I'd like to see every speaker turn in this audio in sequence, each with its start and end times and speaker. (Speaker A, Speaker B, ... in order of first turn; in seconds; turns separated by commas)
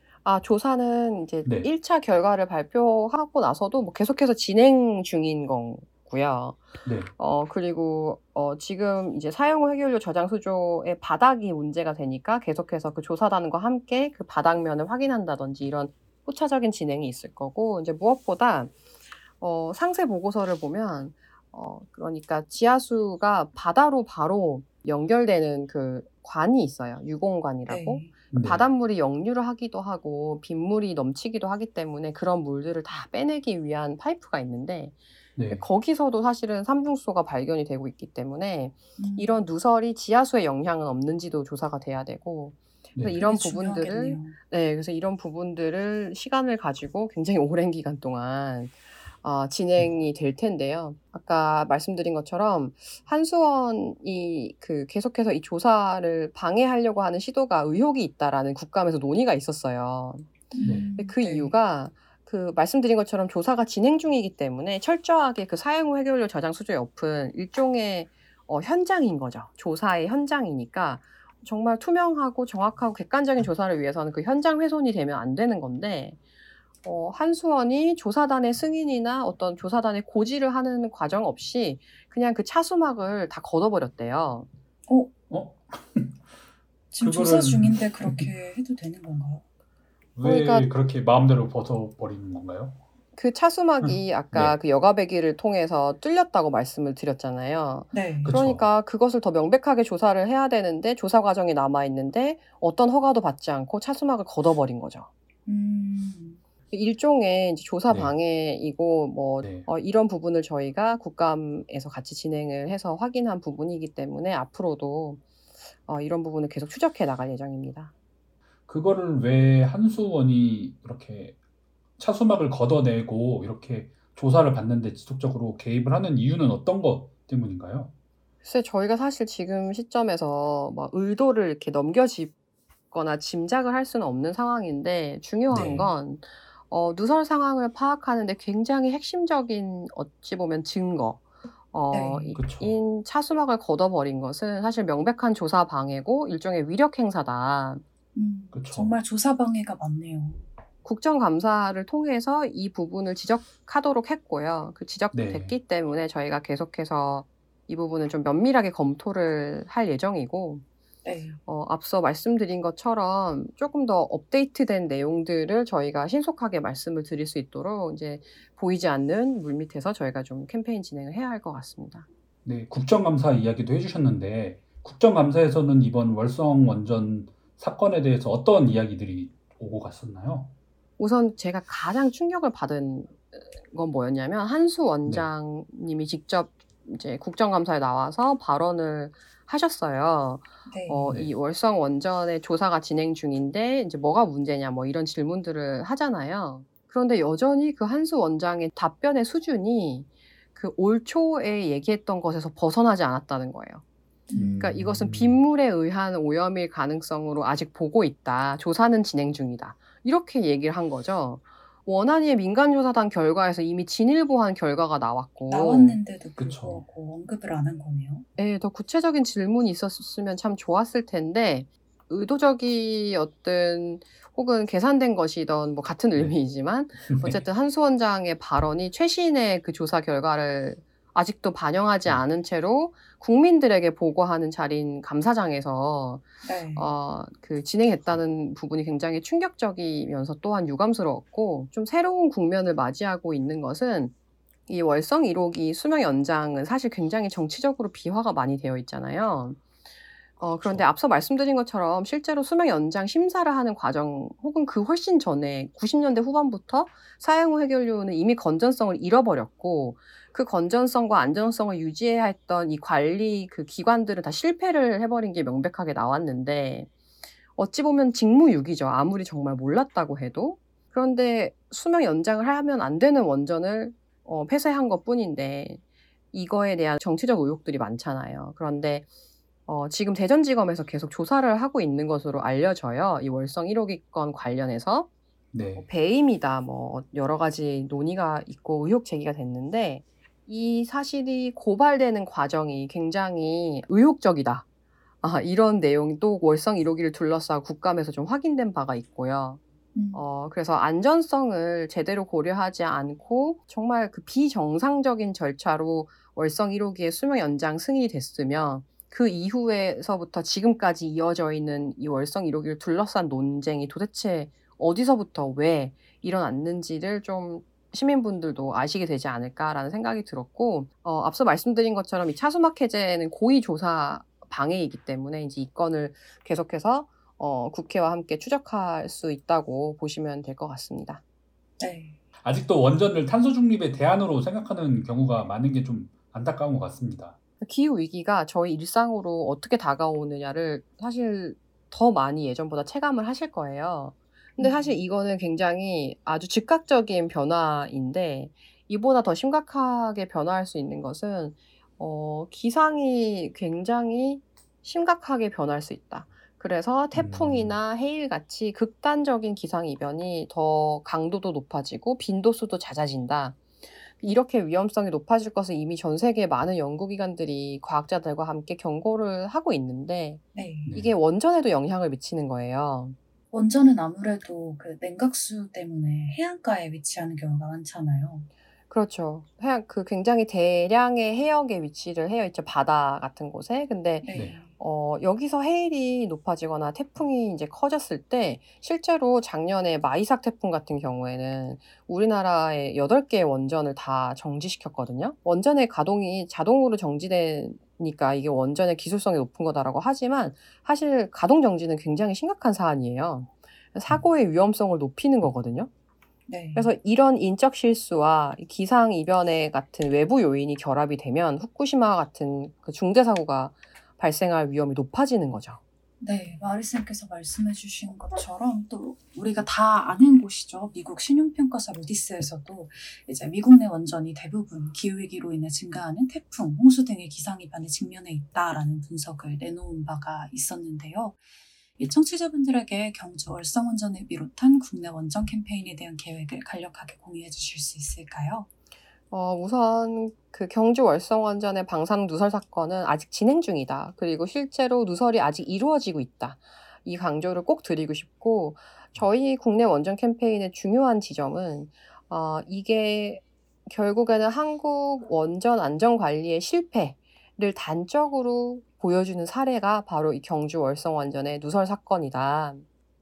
Speaker A: 0.2-18.7, Speaker B: 6.8-7.1, Speaker A: 19.4-35.0, Speaker C: 27.7-28.1, Speaker B: 28.3-28.7, Speaker B: 35.4-35.6, Speaker A: 35.5-60.3, Speaker C: 39.0-39.4, Speaker B: 43.0-43.2, Speaker C: 43.2-44.4, Speaker C: 60.5-61.5, Speaker A: 61.0-76.2, Speaker A: 76.8-84.5, Speaker B: 85.3-86.2, Speaker C: 86.9-89.4, Speaker B: 87.0-88.3, Speaker B: 90.2-92.8, Speaker A: 90.2-90.7, Speaker A: 93.2-105.1, Speaker B: 93.8-94.6, Speaker C: 97.9-98.3, Speaker B: 98.2-98.7, Speaker C: 105.5-106.4, Speaker A: 106.7-115.2, Speaker B: 107.9-108.2, Speaker B: 109.4-109.7, Speaker A: 115.9-117.9, Speaker B: 118.7-121.4, Speaker B: 122.0-127.9, Speaker A: 128.4-132.3, Speaker A: 132.9-147.8, Speaker B: 135.5-135.9, Speaker C: 141.9-142.4, Speaker B: 142.4-142.8, Speaker C: 148.2-150.4, Speaker B: 148.5-148.9, Speaker A: 150.8-160.6, Speaker B: 155.1-155.6, Speaker C: 161.0-161.4, Speaker A: 161.5-172.1, Speaker B: 172.4-180.5, Speaker A: 181.0-203.8, Speaker C: 190.7-191.1, Speaker C: 204.3-204.6, Speaker B: 204.3-205.4, Speaker A: 204.6-216.0, Speaker C: 215.5-218.3, Speaker B: 216.4-216.8, Speaker A: 218.4-244.1, Speaker B: 227.1-227.4, Speaker C: 236.4-236.8, Speaker A: 244.7-249.6, Speaker A: 250.4-266.9, Speaker A: 267.6-275.8, Speaker A: 276.3-279.1, Speaker A: 279.7-285.1, Speaker B: 285.5-285.9, Speaker A: 285.8-294.6, Speaker A: 295.2-299.6, Speaker C: 299.9-300.2, Speaker A: 300.1-331.2, Speaker C: 331.8-332.2, Speaker B: 332.4-337.4, Speaker A: 337.6-363.6, Speaker C: 344.6-345.0, Speaker B: 357.1-357.8, Speaker A: 364.2-373.2, Speaker C: 370.6-370.9, Speaker B: 370.9-371.1, Speaker C: 373.5-378.5, Speaker A: 378.9-405.9, Speaker C: 384.2-384.7, Speaker C: 406.5-406.9, Speaker A: 406.8-415.8, Speaker C: 416.2-431.4, Speaker C: 432.0-438.7, Speaker A: 439.3-462.9